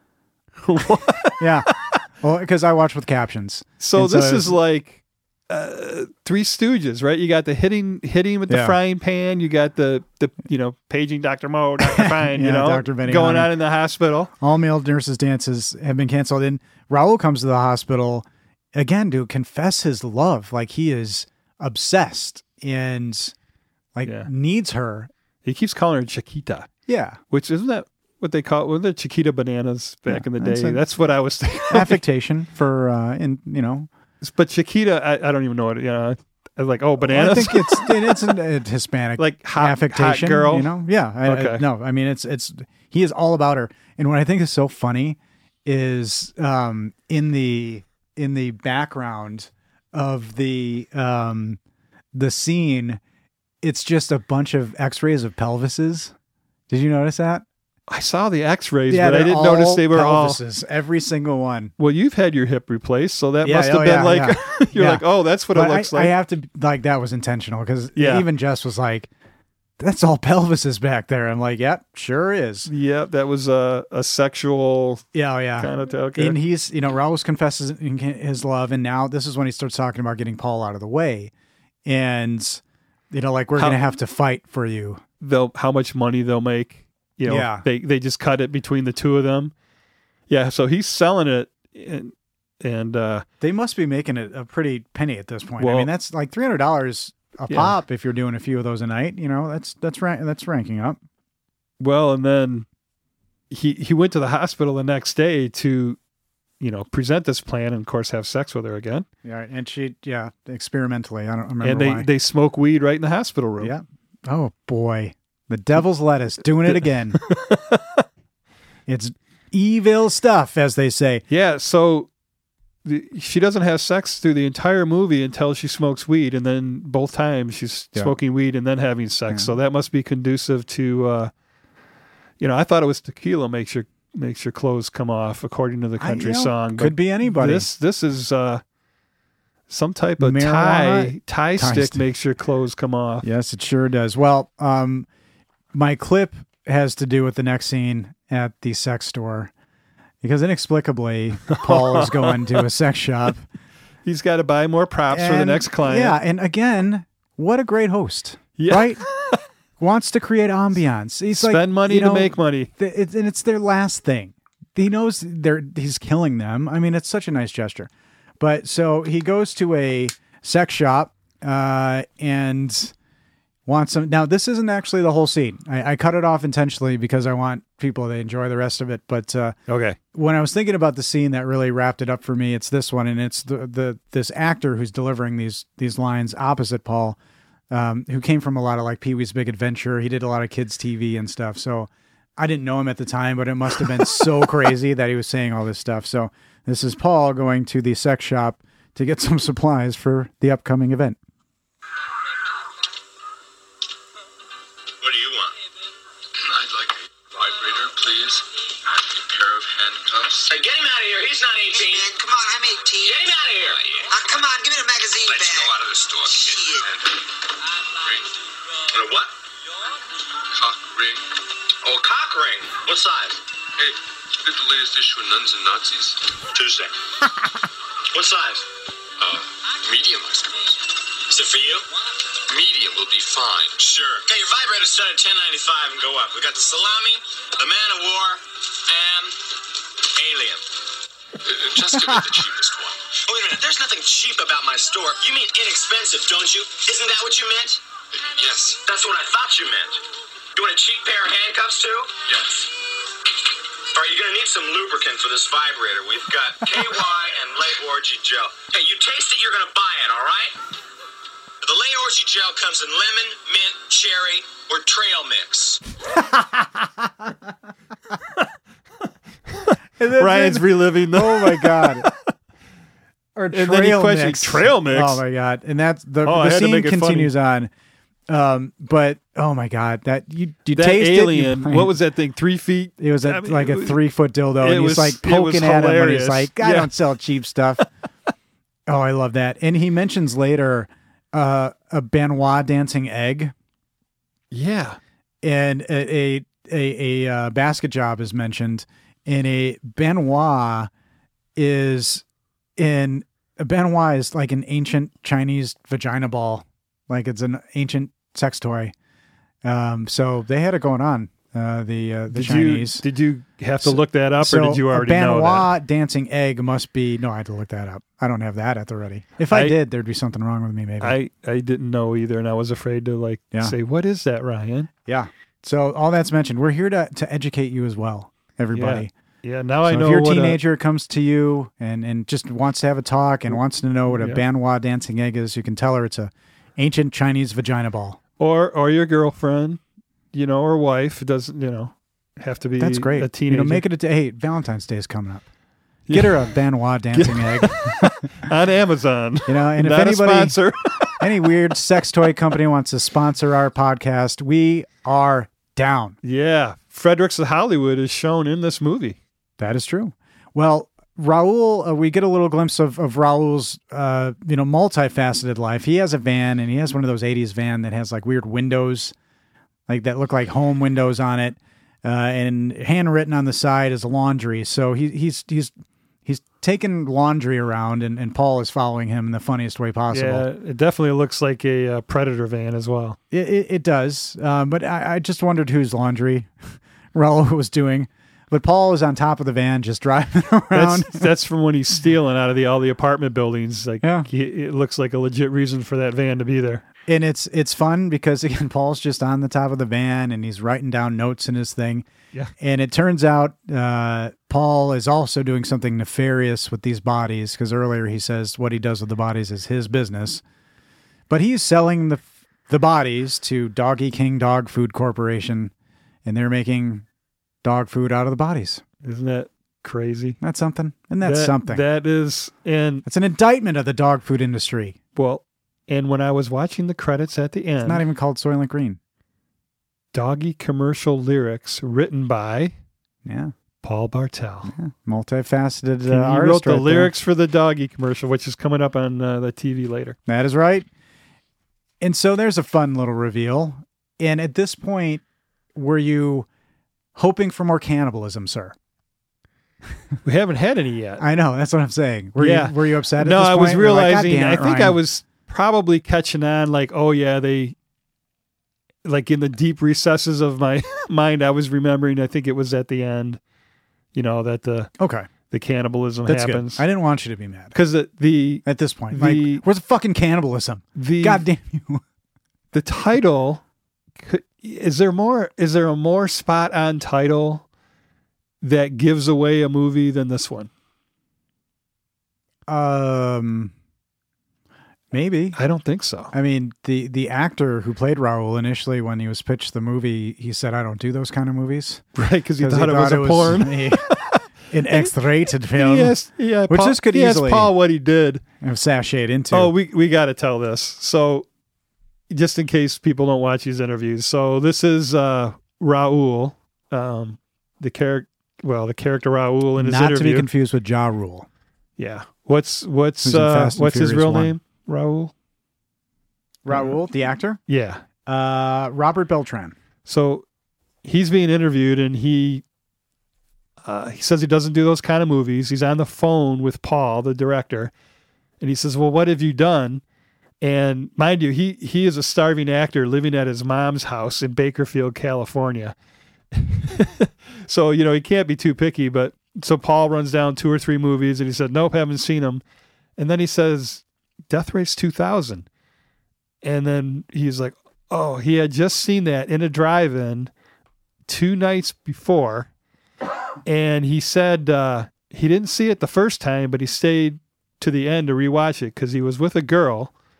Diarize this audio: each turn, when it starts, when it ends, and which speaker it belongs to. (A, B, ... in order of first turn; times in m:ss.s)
0:00.6-0:02.0 A
0:01.4-0:01.7 B
0:02.2-0:04.5 B
0:03.8-0:14.3 A
0:08.5-0:08.8 B
0:11.8-0:13.5 B
0:14.4-0:23.3 B
0:23.9-0:25.1 B
0:24.0-0:24.3 A
0:25.4-0:26.7 A
0:26.9-0:27.2 B
0:27.3-0:32.0 A
0:30.1-0:30.8 B
0:31.7-0:33.9 B
0:34.2-0:38.2 A
0:37.0-0:51.6 B
0:39.2-0:40.7 A
0:41.2-0:41.6 A
0:52.1-0:53.0 B
0:53.6-0:56.1 B
0:56.7-0:57.4 B
0:57.9-1:00.4 A
0:58.9-1:01.7 B
1:01.8-1:06.1 A
1:03.4-1:09.1 B
1:08.0-1:08.3 A
1:09.8-1:12.7 B
1:12.6-1:15.0 A
1:15.1-1:21.3 B
1:15.6-1:16.4 A
1:21.8-1:25.0 B
1:25.2-1:29.5 A
1:27.2-1:27.6 B
1:30.3-1:33.2 A
1:33.4-1:41.0 B
1:35.6-1:35.9 A
1:37.5-1:37.8 A
1:41.8-1:42.6 A
1:43.5-1:46.0 A
1:46.6-1:49.0 A
1:49.2-1:52.1 B
1:51.6-1:53.7 A
1:53.6-1:57.2 B
1:56.6-1:58.0 A
1:58.9-2:01.2 B
2:01.3-2:02.1 A
2:02.8-2:11.3 A
2:12.4-2:18.6 A
2:16.0-2:17.7 B
2:19.7-2:23.3 A
2:20.2-2:22.0 B
2:23.2-2:25.1 B
2:25.7-2:29.5 B
2:30.2-2:33.4 B
2:31.5-2:32.6 A
2:34.0-2:36.2 A
2:35.1-2:39.0 B
2:38.6-2:39.4 A
2:39.8-2:52.9 B
2:41.3-2:42.7 A
2:53.6-2:59.6 B
2:59.7-3:00.0 A
3:00.1-3:07.2 B
3:07.7-3:21.2 B
3:25.0-3:25.6 C
3:26.3-3:30.6 D
3:30.5-3:32.1 C
3:31.9-3:33.1 E
3:33.0-3:34.4 C
3:34.2-3:35.3 E
3:35.2-3:36.8 C
3:35.5-3:37.2 D
3:38.0-3:38.3 D
3:38.9-3:39.3 C
3:40.5-3:41.4 D
3:41.8-3:43.4 C
3:43.8-3:46.3 D
3:46.5-3:46.9 C
3:48.1-3:48.6 C
3:49.2-3:50.7 D
3:51.3-3:51.9 C
3:52.5-3:53.8 D
3:53.8-3:59.4 C
4:00.0-4:00.6 C
4:01.4-4:03.1 D
4:03.2-4:07.8 C
4:08.4-4:08.7 D
4:08.4-4:10.0 C
4:10.5-4:12.6 C
4:13.9-4:20.6 C
4:21.6-4:25.8 C
4:26.1-4:27.3 B
4:29.6-4:32.3 A
4:30.0-4:32.1 B
4:33.4-4:37.7 B
4:33.5-4:35.2 A
4:36.2-4:37.3 A
4:38.3-4:41.9 B
4:40.7-4:44.0 A
4:43.0-4:47.8 B
4:44.6-4:47.0 A
4:48.9-4:53.5 B
4:54.5-4:55.0 A
4:55.4-5:00.9 B
5:01.6-5:02.2 B
5:02.8-5:08.9 B
5:09.6-5:13.0 B
5:12.3-5:15.7 A
5:13.8-5:21.2 B
5:19.5-5:19.8 A
5:21.0-5:24.9 A
5:25.0-5:29.1 B
5:28.7-5:30.6 A
5:29.8-5:38.2 B
5:34.1-5:34.4 A
5:38.4-5:39.8 A
5:40.3-5:43.8 A
5:42.8-5:45.4 B
5:46.1-5:46.5 A
5:46.1-5:48.3 B
5:47.1-5:51.2 A
5:49.5-5:50.6 B
5:51.1-5:56.2 B
5:56.2-5:59.2 A
5:59.6-6:09.1 B
6:09.9-6:15.7 B
6:16.2-6:20.4 B
6:20.1-6:23.2 A
6:23.3-6:31.3 B
6:30.7-6:36.8 A
6:34.0-6:34.3 B
6:37.1-6:42.0 B
6:42.6-6:50.4 B
6:51.3-6:55.7 B
6:56.2-6:57.0 B
6:57.6-6:58.8 B
6:59.0-7:00.4 A
7:00.4-7:01.8 B
7:01.2-7:03.0 A
7:03.0-7:05.0 B
7:05.1-7:08.0 A
7:07.8-7:09.0 B
7:10.1-7:12.7 A
7:13.2-7:13.5 B
7:13.8-7:14.7 A
7:14.7-7:17.1 B
7:16.0-7:20.2 A
7:20.3-7:20.9 B
7:22.0-7:25.2 B
7:25.7-7:26.5 B
7:27.1-7:28.7 B
7:30.2-7:31.2 A
7:31.2-7:35.0 B
7:32.4-7:37.7 A
7:39.0-7:43.4 A
7:44.1-7:44.9 A
7:45.0-7:45.3 B
7:45.5-7:46.8 A
7:46.2-7:47.7 B
7:47.7-7:49.6 A
7:48.6-7:52.0 B
7:50.9-7:51.4 A
7:52.7-7:53.6 A
7:54.2-7:57.6 A
7:58.6-8:00.7 A
8:02.7-8:03.7 B
8:05.1-8:05.6 B
8:05.5-8:06.3 A
8:06.3-8:12.0 B
8:12.1-8:15.1 A
8:12.6-8:14.1 B
8:14.7-8:16.2 B
8:15.7-8:18.4 A
8:16.7-8:17.7 B
8:18.6-8:19.7 B
8:19.5-8:21.4 A
8:22.3-8:30.5 A
8:29.8-8:31.5 B
8:32.0-8:35.3 A
8:33.2-8:34.5 B
8:36.6-8:37.6 B
8:36.7-8:37.0 A
8:37.7-8:38.0 A
8:38.2-8:39.7 B
8:40.0-8:40.4 A
8:41.0-8:42.6 A
8:43.8-8:47.9 A
8:48.6-8:50.0 A
8:50.6-8:55.9 A
8:56.5-9:02.6 A
9:03.2-9:05.7 A
9:06.6-9:10.5 A
9:11.3-9:12.7 A
9:13.6-9:20.1 A